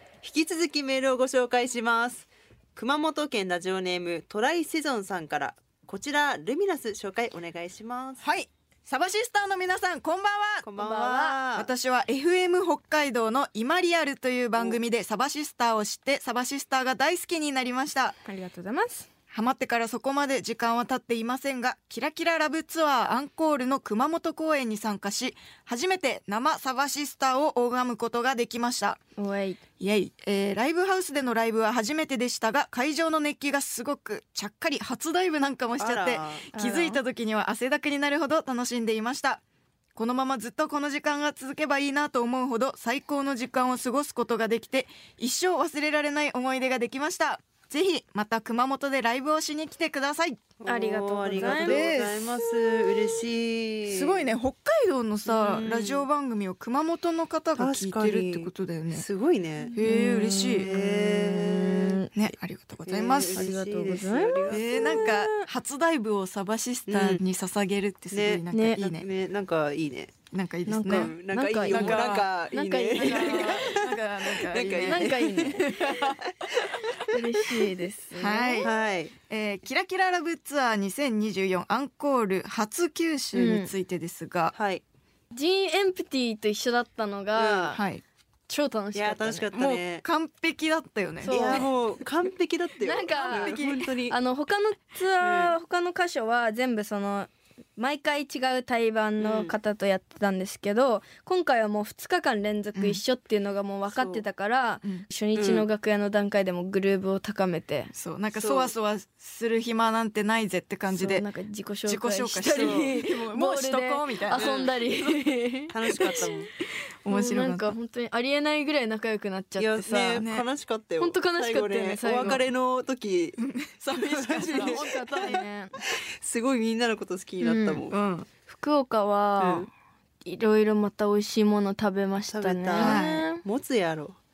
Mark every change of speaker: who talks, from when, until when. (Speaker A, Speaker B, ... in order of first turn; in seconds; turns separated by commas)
Speaker A: 0.2-8.2, Speaker B: 8.2-10.7, Speaker A: 10.6-11.7, Speaker C: 10.8-11.4, Speaker B: 11.5-18.2, Speaker C: 18.2-19.1, Speaker B: 19.3-29.0, Speaker C: 29.2-29.6, Speaker B: 29.8-39.4, Speaker A: 35.8-36.5, Speaker C: 36.5-37.0, Speaker B: 40.0-50.4, Speaker A: 50.6-54.3, Speaker C: 50.7-51.9, Speaker B: 51.4-52.7, Speaker B: 53.9-59.0, Speaker A: 55.3-56.0, Speaker A: 57.6-59.8, Speaker C: 59.7-62.1, Speaker B: 59.8-60.8, Speaker A: 60.6-62.0, Speaker B: 62.1-63.5, Speaker A: 62.9-65.5, Speaker C: 63.3-64.5, Speaker B: 64.5-69.1, Speaker A: 66.9-67.2, Speaker A: 68.1-70.2, Speaker C: 68.5-68.8, Speaker B: 70.3-72.3, Speaker C: 70.7-73.7, Speaker A: 70.9-76.8, Speaker B: 73.0-76.2, Speaker C: 74.8-75.8, Speaker C: 77.1-78.7, Speaker B: 78.2-78.7, Speaker A: 78.6-79.1, Speaker B: 79.3-84.5, Speaker C: 83.3-83.7, Speaker A: 84.5-84.8, Speaker C: 85.3-87.8, Speaker A: 87.3-87.8, Speaker B: 87.8-88.0, Speaker C: 88.5-89.5, Speaker A: 89.0-90.0, Speaker B: 89.5-91.7, Speaker C: 91.2-91.7, Speaker A: 91.3-94.2, Speaker C: 92.8-107.9, Speaker B: 93.2-93.8, Speaker A: 95.2-95.5, Speaker A: 99.2-99.5, Speaker B: 102.8-103.0, Speaker A: 104.0-104.2, Speaker A: 105.4-105.7, Speaker B: 107.9-111.3, Speaker A: 108.3-108.7, Speaker C: 110.9-116.3, Speaker B: 111.9-114.5, Speaker A: 112.5-112.9, Speaker A: 114.3-114.8, Speaker A: 115.7-116.5, Speaker B: 117.0-117.8, Speaker C: 117.1-120.3, Speaker A: 119.6-123.4, Speaker B: 120.2-120.5, Speaker C: 121.0-122.4, Speaker B: 123.4-125.4, Speaker A: 123.9-125.4, Speaker C: 124.5-125.8, Speaker A: 126.2-128.0, Speaker C: 127.4-127.8, Speaker B: 127.9-128.3, Speaker C: 128.5-129.7, Speaker A: 129.4-129.7, Speaker C: 130.2-133.4, Speaker A: 132.3-134.2, Speaker B: 132.8-133.2